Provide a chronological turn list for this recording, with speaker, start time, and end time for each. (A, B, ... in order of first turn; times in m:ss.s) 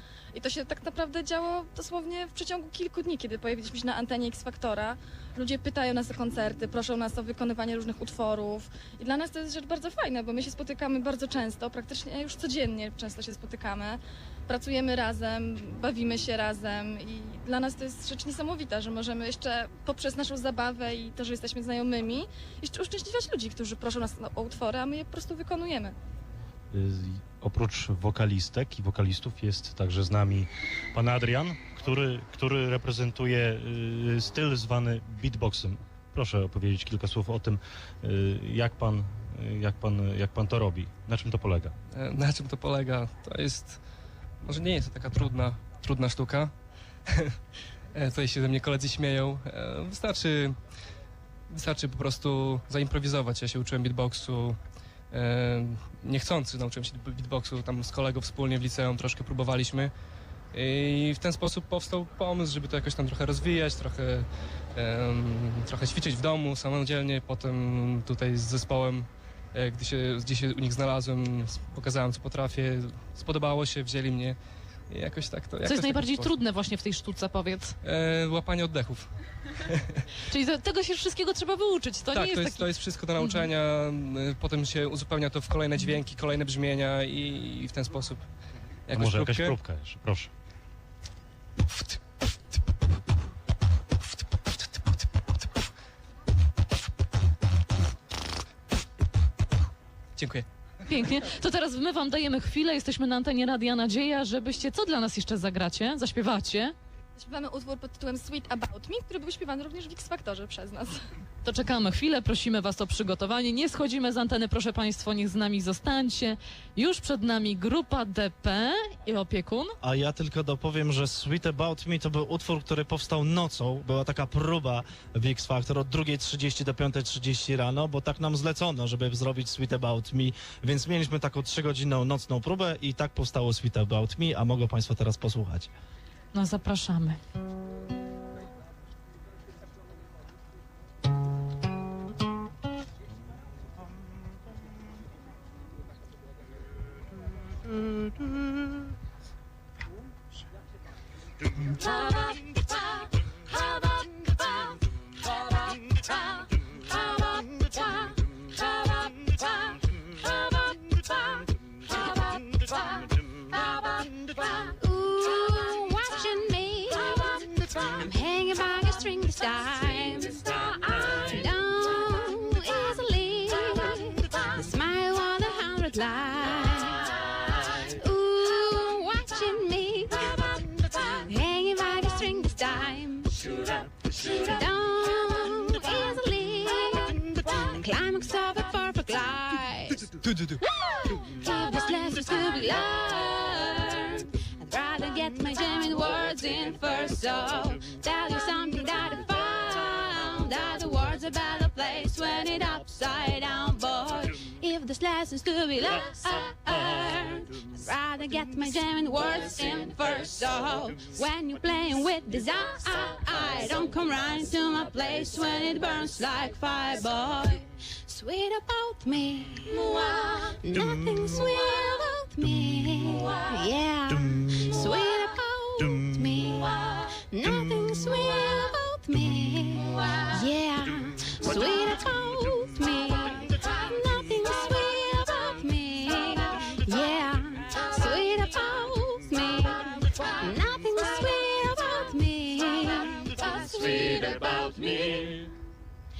0:00.3-0:25.9 A
0:26.7-0:41.7 B
0:41.9-0:43.8 C
0:44.4-0:46.5 C
0:47.9-0:50.6 C
0:51.5-0:54.6 C
0:55.1-0:59.9 C
1:00.5-1:14.4 C
1:14.9-1:16.3 C
1:15.6-1:17.8 D
1:17.8-1:20.0 C
1:20.3-1:23.5 D
1:22.1-1:28.3 C
1:28.9-1:29.6 C
1:28.9-1:30.3 B
1:40.2-1:40.4 C
1:40.9-1:46.7 D
1:47.2-1:51.0 A
1:51.4-1:59.7 D
1:59.8-2:15.7 E
2:16.3-2:17.2 D
2:36.8-2:39.4 F
2:40.5-2:41.1 F
2:42.0-2:42.8 F
2:44.4-2:57.1 F
2:57.9-3:03.5 F
3:04.2-3:10.0 F
3:10.3-3:10.6 C
3:10.6-4:05.5 F